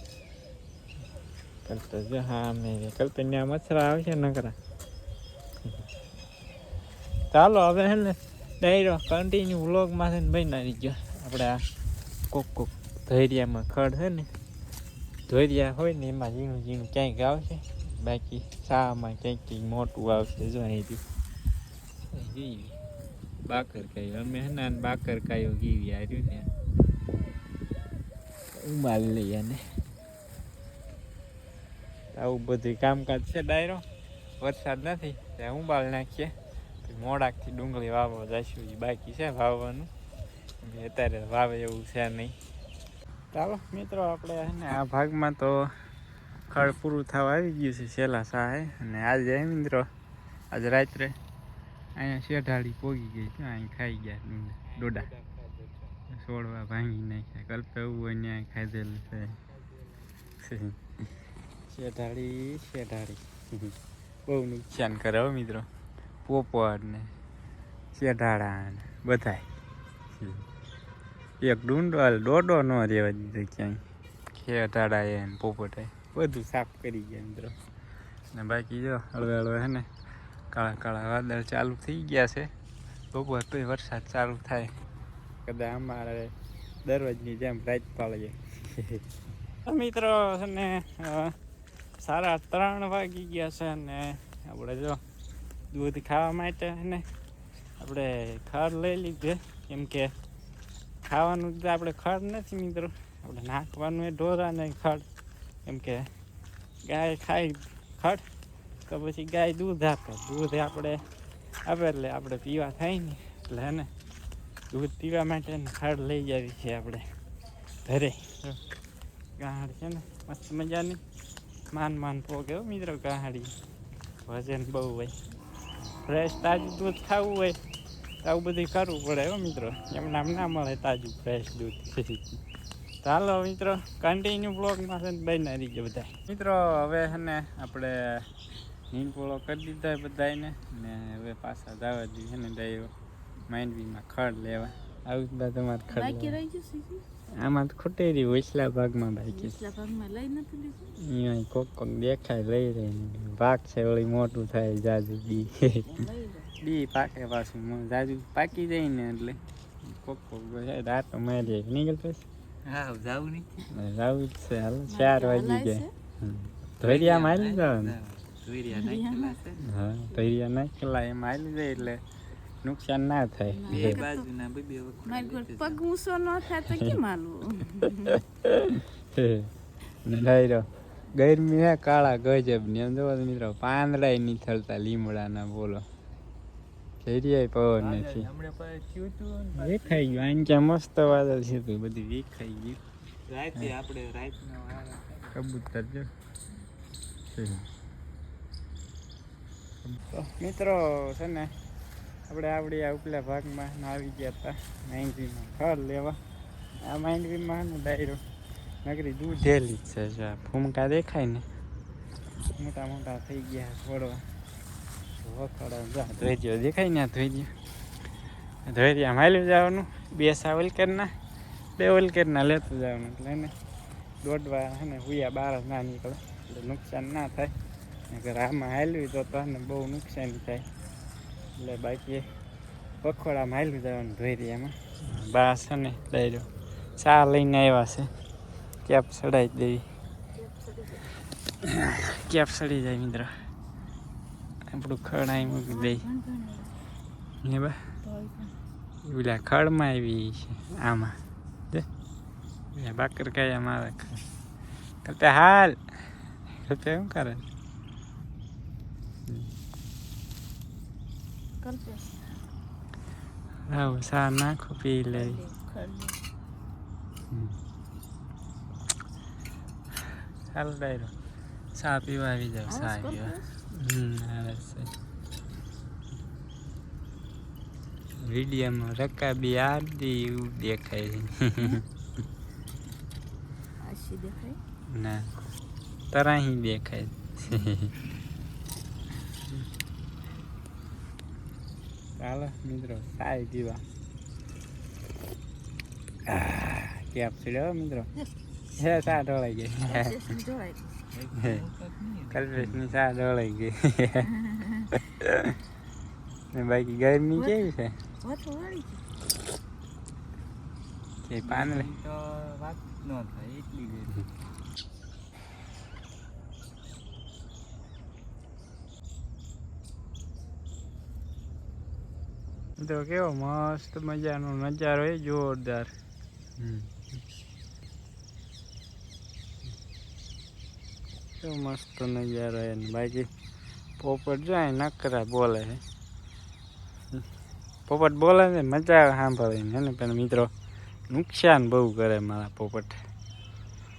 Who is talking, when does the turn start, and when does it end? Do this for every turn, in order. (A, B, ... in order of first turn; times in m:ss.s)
0:01.6-0:04.6 A
0:07.3-0:11.6 A
0:12.3-0:14.3 A
0:15.3-0:21.0 A
0:22.1-0:22.7 A
0:23.5-0:26.5 A
0:28.6-0:29.6 A
0:32.1-0:33.8 A
0:34.4-0:36.3 A
0:36.8-0:39.9 A
0:40.6-0:42.4 A
0:43.3-0:45.7 A
0:46.5-0:49.8 A
0:50.5-0:51.2 A
0:52.0-0:55.1 A
0:54.7-0:56.0 B
0:56.1-0:59.4 A
0:59.1-1:00.1 B
1:00.4-1:00.8 A
1:01.7-1:03.7 A
1:04.3-1:05.7 A
1:06.2-1:07.1 A
1:07.9-1:09.5 A
1:10.2-1:10.4 A
1:11.4-1:13.8 A
1:14.3-1:17.5 A
1:18.3-1:19.9 A
1:20.5-1:22.5 A
1:23.1-1:24.7 A
1:25.5-1:26.3 A
1:26.8-1:29.0 A
1:29.7-1:31.3 A
1:32.0-1:35.0 A
1:35.7-1:37.0 A
1:37.8-1:40.1 A
1:41.1-1:45.0 A
1:45.7-1:46.1 A
1:46.8-1:48.2 A
1:48.9-1:51.0 A
1:51.7-1:53.9 A
1:54.7-1:57.0 A
1:57.9-1:58.6 A
1:59.4-2:01.0 A
2:01.7-2:03.5 A
2:04.3-2:05.1 A
2:06.0-2:07.6 A
2:08.2-2:12.4 A
2:13.0-2:18.0 A
2:18.9-2:22.9 A
2:23.5-2:26.4 A
2:25.9-2:27.0 C
2:27.4-2:29.6 A
2:29.3-2:30.8 C
2:31.0-2:35.9 A
2:36.0-2:36.5 C
2:36.6-2:42.3 A
2:42.6-2:43.5 B
2:43.7-2:48.0 A
2:44.9-2:45.9 C
2:46.8-2:49.7 B
2:48.8-2:49.3 C
2:49.6-2:52.0 A
2:52.6-2:54.1 A
2:53.6-2:54.3 C
2:53.7-2:55.8 B
2:55.1-2:58.1 C
2:56.7-2:57.0 A
2:58.1-2:59.5 A
3:00.0-3:05.8 A
3:07.0-3:08.3 A
3:07.8-3:10.2 B
3:09.6-3:12.8 A
3:13.3-3:15.4 B
3:15.3-3:16.1 A
3:17.3-3:17.7 A
3:20.1-3:21.5 A
3:22.3-3:26.2 A
3:26.8-3:28.2 A
3:28.8-3:31.4 A
3:32.6-3:34.2 A
3:35.2-3:37.5 A
3:38.7-3:41.1 A
3:41.8-3:43.5 A
3:44.2-3:47.5 A
3:48.1-3:50.6 A
3:51.6-3:52.2 A
3:53.0-3:56.5 A
3:57.0-3:58.1 A
3:58.9-3:59.8 A
4:01.6-4:03.3 A
4:04.7-4:06.0 A
4:05.7-4:06.6 C
4:07.4-4:07.8 A
4:08.1-4:08.5 C
4:09.1-4:11.2 A
4:12.7-4:14.1 A
4:15.0-4:15.8 A
4:16.7-4:17.4 A
4:21.6-4:22.1 C
4:23.7-4:25.4 A
4:25.1-4:26.2 C
4:30.5-4:31.1 A
4:31.8-4:34.9 A
4:32.7-4:33.5 C
4:38.2-4:41.8 A
4:43.8-4:44.6 C
4:44.9-4:45.3 A
4:46.1-4:47.9 A
4:52.2-4:53.8 A
4:56.3-4:58.1 A
4:58.8-5:00.2 A
4:59.8-5:00.9 C
5:01.1-5:02.9 B
5:01.4-5:01.6 A
5:02.3-5:04.3 A
5:05.2-5:05.5 A
5:06.5-5:07.9 A
5:08.2-5:09.0 C
5:11.2-5:11.9 A
5:11.4-5:14.1 B
5:22.8-5:25.9 A
5:26.6-5:27.2 A
5:31.4-5:33.3 A
5:34.0-5:35.8 A
5:37.9-5:40.5 A
5:41.1-5:43.0 A